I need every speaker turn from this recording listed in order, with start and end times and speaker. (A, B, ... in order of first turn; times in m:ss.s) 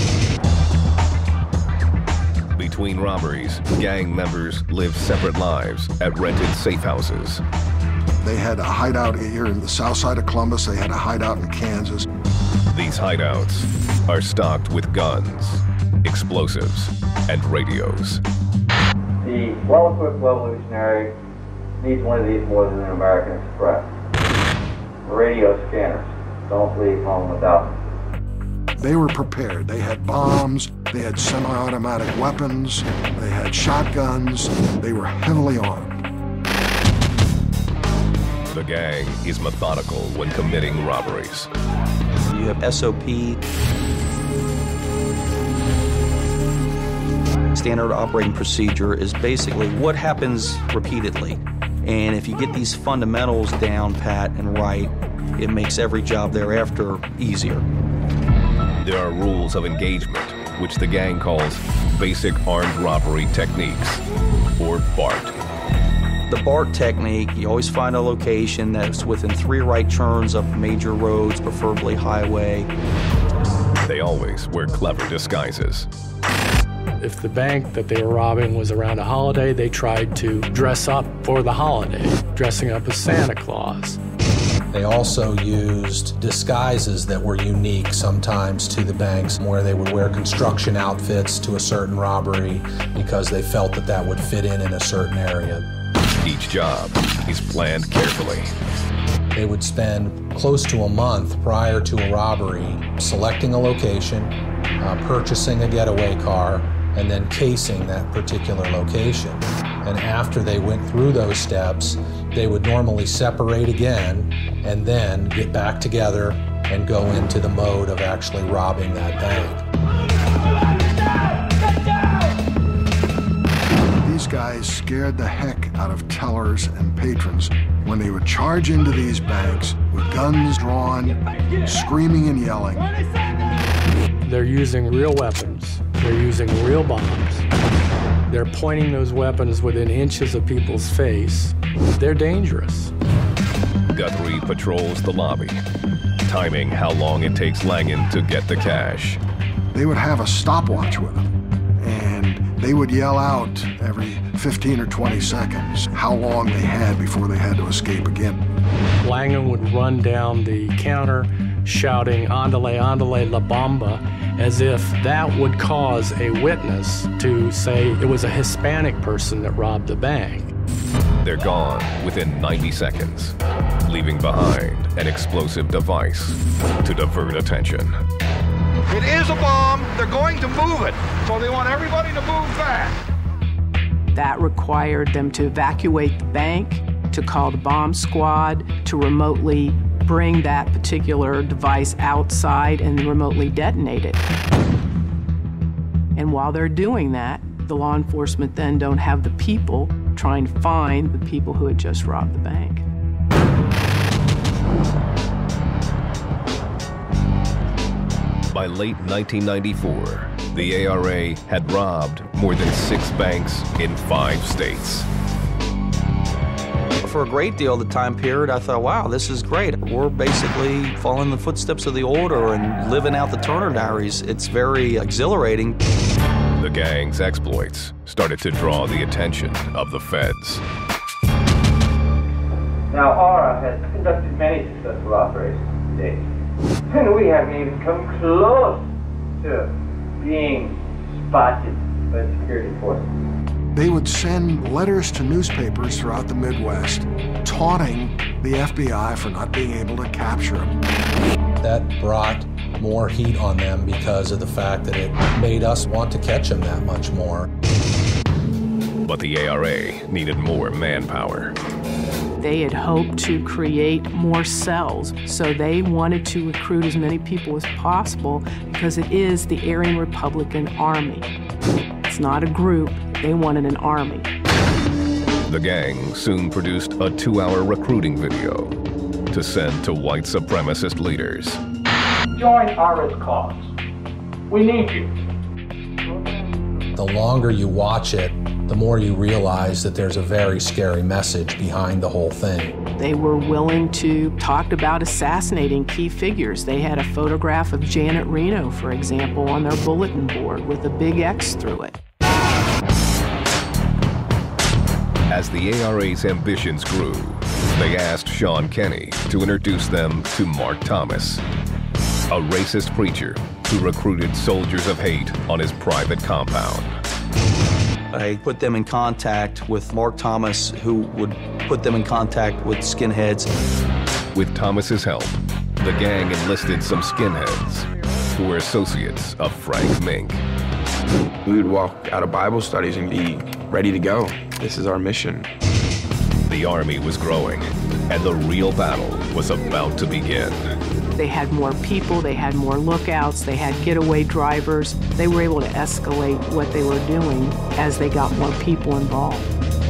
0:02.6-0:07.4 A
0:08.2-0:12.1 B
0:12.7-0:18.2 A
0:19.2-0:21.1 C
0:21.8-0:23.9 C
0:25.0-0:27.8 C
0:28.8-0:36.0 B
0:38.5-0:41.5 A
0:42.3-0:43.4 D
0:47.6-0:57.6 D
0:58.8-1:04.0 A
1:04.6-1:05.3 A
1:06.3-1:12.7 D
1:13.8-1:15.9 A
1:17.0-1:24.0 E
1:24.7-1:35.7 F
1:36.2-1:38.5 A
1:39.3-1:59.6 F
2:04.0-2:12.9 B
2:14.2-2:17.5 E
2:18.3-2:22.9 E
2:23.9-2:25.6 A
2:26.2-2:29.2 A
2:29.7-2:31.3 B
2:31.8-2:38.4 B
2:39.0-2:50.5 E
2:51.2-2:58.0 A
2:58.9-3:03.0 G
3:04.2-3:14.2 H
3:16.2-3:22.8 H
3:28.5-3:35.1 A
3:37.0-3:45.8 D
3:46.6-3:50.6 A
3:52.9-3:56.3 C
3:56.9-3:58.9 C
3:59.4-4:03.2 C
4:03.8-4:10.7 B
4:11.6-4:17.5 F
4:19.0-4:21.6 A
4:22.4-4:31.3 H
4:32.1-4:34.3 H
4:35.5-4:38.8 A
4:39.3-4:41.6 A
4:42.4-4:43.7 I
4:44.5-4:45.1 I
4:47.0-4:52.8 F
4:53.0-5:02.0 H
5:05.3-5:11.4 A
5:12.3-5:17.0 A
5:18.1-5:23.5 D
5:24.3-5:30.4 A
5:31.4-5:35.5 J
5:36.5-5:40.7 A
5:41.2-5:49.5 H